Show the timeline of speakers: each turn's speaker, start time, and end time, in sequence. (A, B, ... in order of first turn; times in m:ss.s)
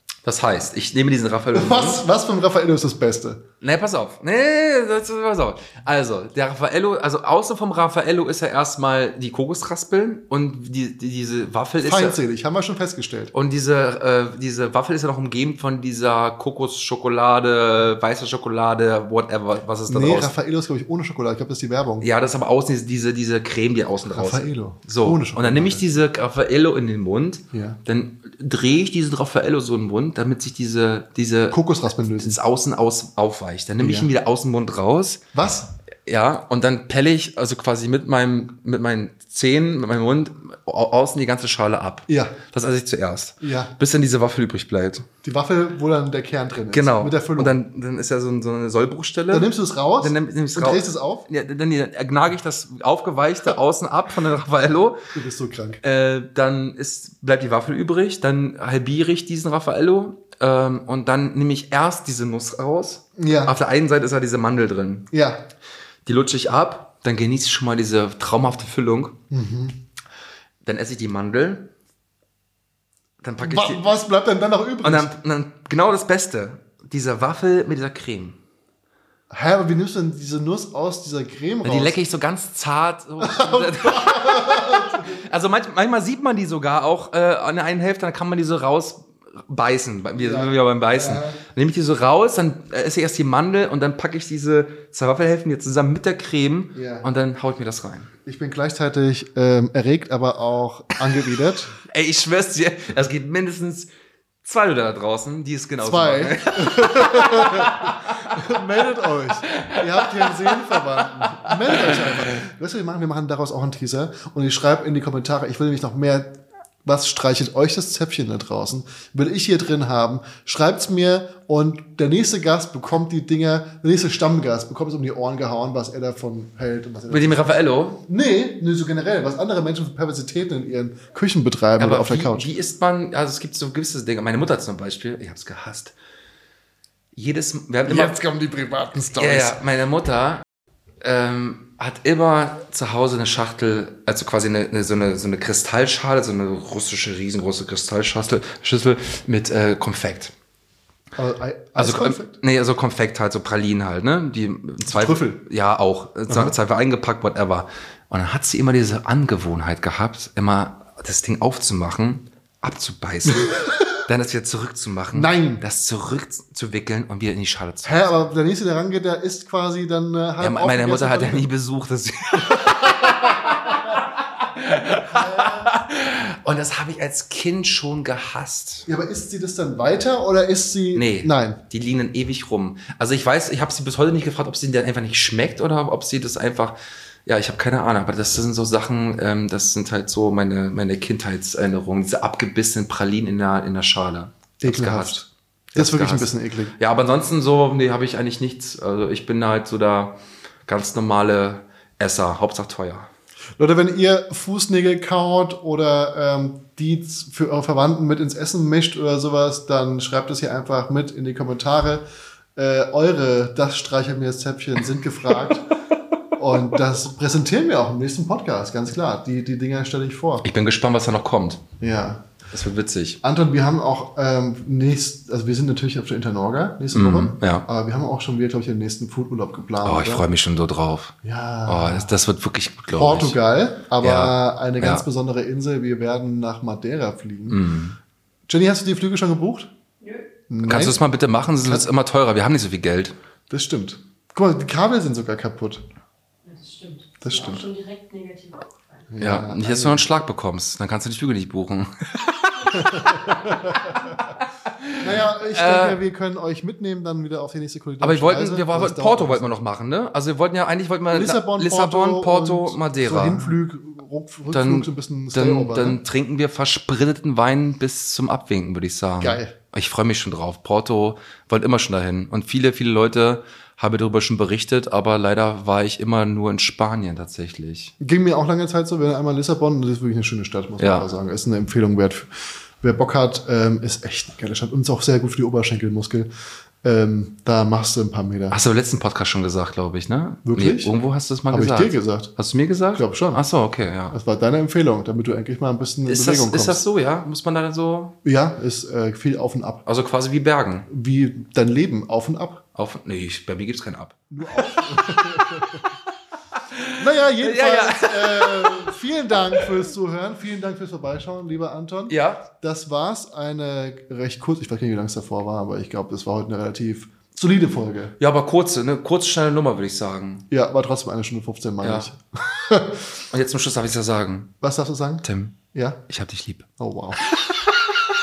0:00.2-0:02.0 A
0:01.5-0:03.4 B
0:03.6-0:12.2 A
0:11.8-0:13.3 B
0:13.3-0:20.3 A
0:19.9-0:22.1 B
0:22.0-0:31.6 A
0:24.1-0:25.8 B
0:27.5-0:27.8 B
0:31.5-0:32.4 B
0:32.1-0:35.2 A
0:33.8-0:34.1 B
0:35.3-0:35.7 B
0:36.0-0:45.1 A
0:42.1-0:42.3 B
0:43.4-0:43.7 B
0:45.2-0:47.6 B
0:46.7-0:55.1 A
0:49.3-0:51.2 B
0:55.1-0:55.8 B
0:55.8-1:05.1 A
1:03.2-1:03.6 B
1:05.1-1:05.4 B
1:06.0-1:09.2 A
1:09.3-1:09.8 B
1:10.6-1:11.7 A
1:13.2-1:13.8 A
1:13.4-1:15.1 B
1:14.8-1:18.4 A
1:19.3-1:22.0 B
1:21.6-1:38.1 A
1:23.2-1:25.2 B
1:30.2-1:31.4 B
1:36.7-1:37.1 B
1:38.2-1:41.7 B
1:41.8-1:43.9 A
1:44.4-1:48.4 A
1:45.8-2:12.5 B
1:49.5-1:50.8 A
1:51.4-1:52.2 A
2:07.1-2:08.0 A
2:11.8-2:15.9 A
2:17.1-2:18.2 A
2:17.9-2:19.6 B
2:19.2-2:20.4 A
2:21.0-2:30.3 A
2:31.2-2:32.4 B
2:31.8-2:48.1 A
2:34.9-2:35.4 B
2:36.3-2:36.5 B
2:43.3-2:43.8 B
2:45.1-2:45.6 B
2:47.8-2:51.5 B
2:50.4-2:58.9 A
2:52.4-2:54.0 B
2:54.9-2:55.7 B
2:58.9-3:01.6 B
3:00.9-3:06.7 A
3:07.2-3:15.2 A
3:14.6-3:16.7 B
3:15.7-3:23.1 A
3:23.6-3:32.0 B
3:32.6-3:35.7 B
3:36.4-3:40.4 B
3:40.4-3:41.6 A
3:41.8-3:42.2 B
3:42.5-3:43.2 A
3:43.2-3:50.2 B
3:46.9-3:47.7 A
3:49.8-3:51.1 A
3:51.2-3:52.1 B
3:51.7-3:53.4 A
3:52.9-3:57.6 B
3:54.0-3:55.0 A
3:57.5-3:58.0 A
3:58.5-3:59.7 B
4:00.0-4:00.3 C
4:00.5-4:01.0 B
4:00.6-4:03.1 A
4:01.6-4:01.8 B
4:03.5-4:05.8 B
4:06.4-4:09.1 C
4:07.2-4:07.7 B
4:09.1-4:10.0 B
4:09.2-4:13.4 A
4:12.7-4:14.1 B
4:13.9-4:16.0 A
4:15.0-4:19.6 B
4:18.0-4:23.6 A
4:21.1-4:26.0 B
4:24.5-4:37.9 A
4:29.2-4:29.5 B
4:38.0-4:46.3 B
4:40.8-4:41.0 A
4:46.8-4:48.6 B
4:48.5-4:54.1 A
4:50.4-4:50.9 B
4:51.5-4:52.3 B
4:52.9-4:53.4 B
4:54.1-4:56.8 B
4:56.0-4:58.1 A
4:58.2-4:59.8 B
4:59.8-5:00.9 A
5:00.9-5:02.6 B
5:02.7-5:05.2 A
5:04.3-5:05.9 B
5:06.6-5:09.0 A
5:07.0-5:18.1 B
5:12.1-5:12.4 A
5:18.2-5:20.4 A
5:20.5-5:23.0 B
5:21.8-5:22.1 A
5:23.3-5:24.5 A
5:24.6-5:26.0 B
5:25.2-5:26.7 A
5:26.8-5:27.2 B
5:27.2-5:27.7 A